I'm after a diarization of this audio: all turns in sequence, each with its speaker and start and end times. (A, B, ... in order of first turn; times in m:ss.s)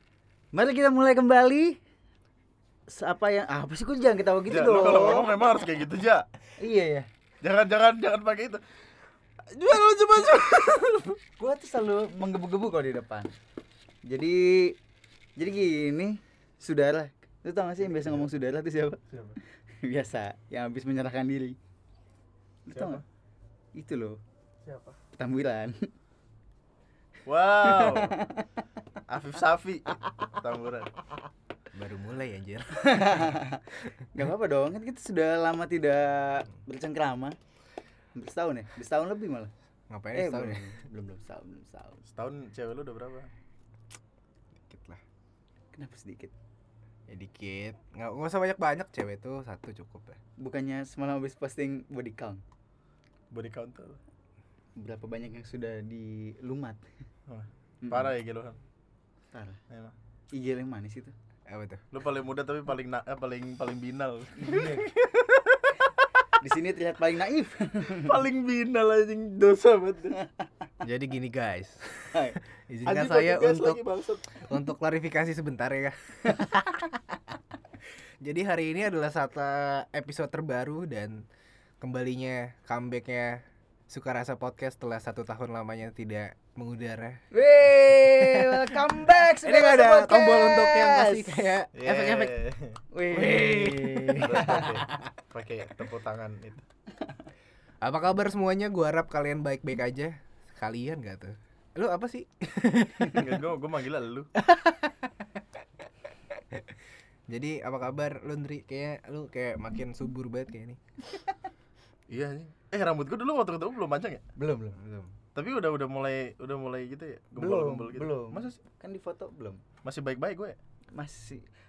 0:00.5-0:01.8 A
0:02.9-0:05.3 A
0:04.5-0:06.2 B
0:06.6-0:07.1 A
0:07.4-0:08.6 B
0:09.5-0:11.2 B
0:11.4-0:13.3 A
0:14.1-0:14.8 A
0:15.4-0:19.0 A
0:17.8-0:18.3 B
0:19.1-0:19.4 B
0:19.8-0:21.6 A
0:22.7-0:23.0 A
0:22.7-0:23.0 B
0:23.8-0:24.2 A
0:24.6-0:25.0 B
0:25.2-0:25.7 A
0:27.2-0:28.1 B
0:27.7-0:28.5 A
0:29.1-0:31.0 B
0:31.7-0:33.3 C
0:32.8-0:37.4 A
0:38.1-0:39.5 A
0:39.9-0:40.8 C
0:40.1-0:42.0 A
0:42.1-0:43.3 B
0:44.6-0:45.0 C
0:45.7-0:46.3 A
0:47.1-0:50.2 C
0:50.4-0:52.4 A
0:53.3-0:54.0 B
0:54.8-0:56.8 A
0:57.3-0:58.6 B
0:57.8-0:58.1 A
0:59.3-0:59.6 A
1:00.3-1:01.1 A
1:01.5-1:01.8 C
1:01.9-1:05.7 B
1:04.4-1:04.9 A
1:06.4-1:08.2 A
1:07.9-1:10.2 B
1:10.8-1:13.8 C
1:12.8-1:14.4 B
1:14.4-1:16.8 C
1:18.2-1:21.2 C
1:21.8-1:27.2 C
1:27.3-1:31.5 A
1:28.2-1:32.4 C
1:31.7-1:32.8 B
1:32.9-1:34.7 A
1:33.1-1:35.1 C
1:34.2-1:36.6 B
1:37.8-1:43.4 C
1:43.1-1:44.3 B
1:44.4-1:45.4 C
1:46.3-1:46.8 C
1:47.3-1:50.8 C
1:52.1-1:54.2 B
1:54.4-1:54.8 A
1:54.8-1:55.1 C
1:55.3-1:58.6 B
1:57.4-1:59.6 A
1:59.8-2:00.6 B
2:00.9-2:01.4 A